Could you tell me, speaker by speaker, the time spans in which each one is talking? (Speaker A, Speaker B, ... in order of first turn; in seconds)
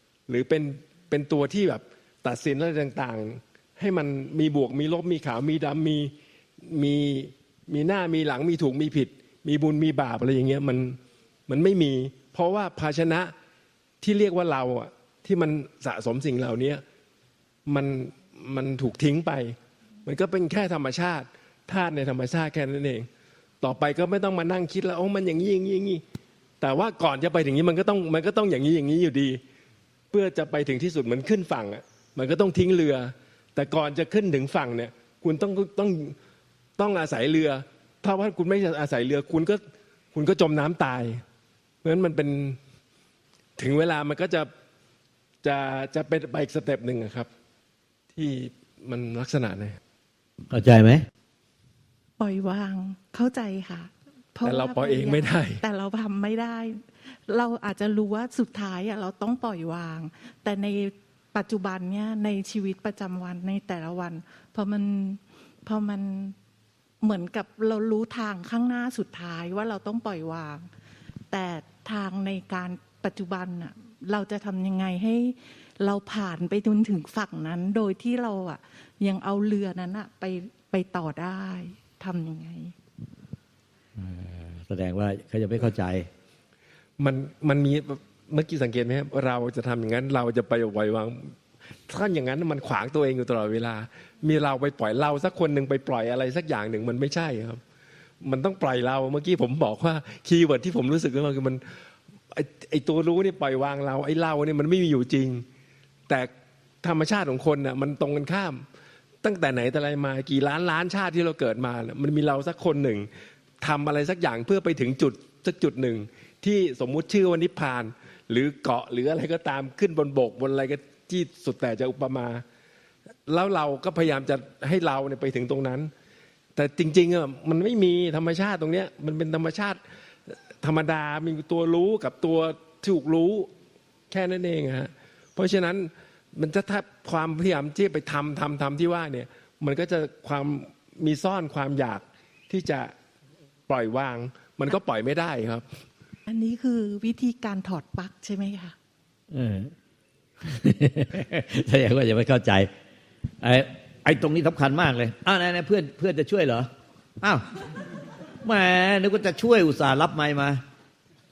Speaker A: 0.3-13.3, 14.0-16.8, 17.7-23.1, 23.6-26.0, 26.6-29.4, 30.1-36.2, 36.8-39.6, 40.1-41.2, 41.8-42.6, 43.6-44.5, 45.4-47.3, 48.1-49.8, 54.5-55.6, 87.0-91.4, 91.9-97.6, 98.2-101.8, 102.3-105.5, 106.8-108.7, 109.2-113.1, 113.6-122.4, 123.3-125.9, 126.6-133.5, 134.1-142.9, 143.7-145.8
Speaker B: 50.5-51.1, 84.0-86.1, 149.3-149.7, 150.4-152.7, 153.4-156.7, 157.2-160.6
Speaker C: 52.2-66.4, 67.0-70.7, 71.3-82.7, 146.3-148.8